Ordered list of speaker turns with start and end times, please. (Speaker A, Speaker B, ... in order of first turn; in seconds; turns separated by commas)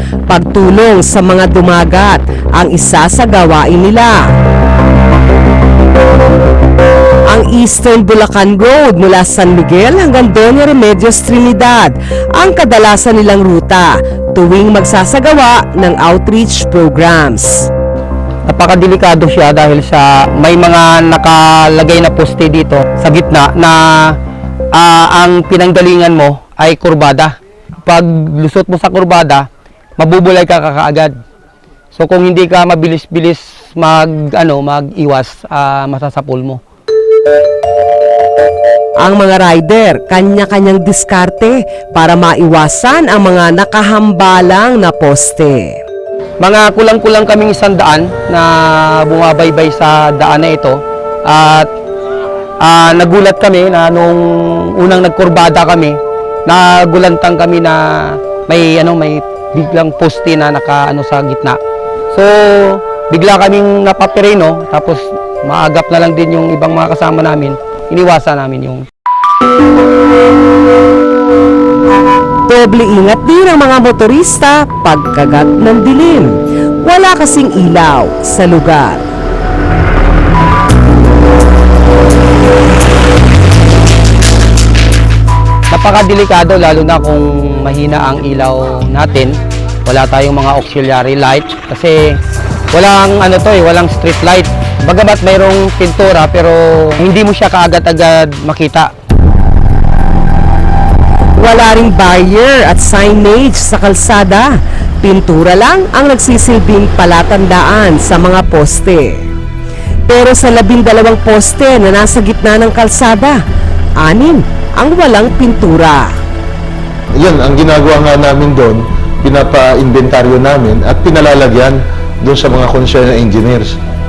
Speaker A: 0.3-4.2, Speaker A: 7.3-17.7, Speaker B: 18.5-24.1, Speaker B: 24.7-27.3, Speaker B: 27.9-29.4, Speaker B: 30.0-31.1, Speaker B: 31.9-36.6, Speaker A: 39.0-45.8, Speaker B: 46.4-51.7, Speaker B: 52.6-54.2, Speaker B: 54.8-61.6, Speaker B: 62.1-68.8, Speaker A: 72.5-79.0, Speaker B: 85.7-89.3, Speaker B: 89.8-92.2, Speaker B: 92.7-98.9, Speaker A: 101.4-104.5, Speaker A: 105.0-109.2, Speaker A: 110.1-113.4, Speaker A: 114.0-116.1, Speaker C: 117.2-123.8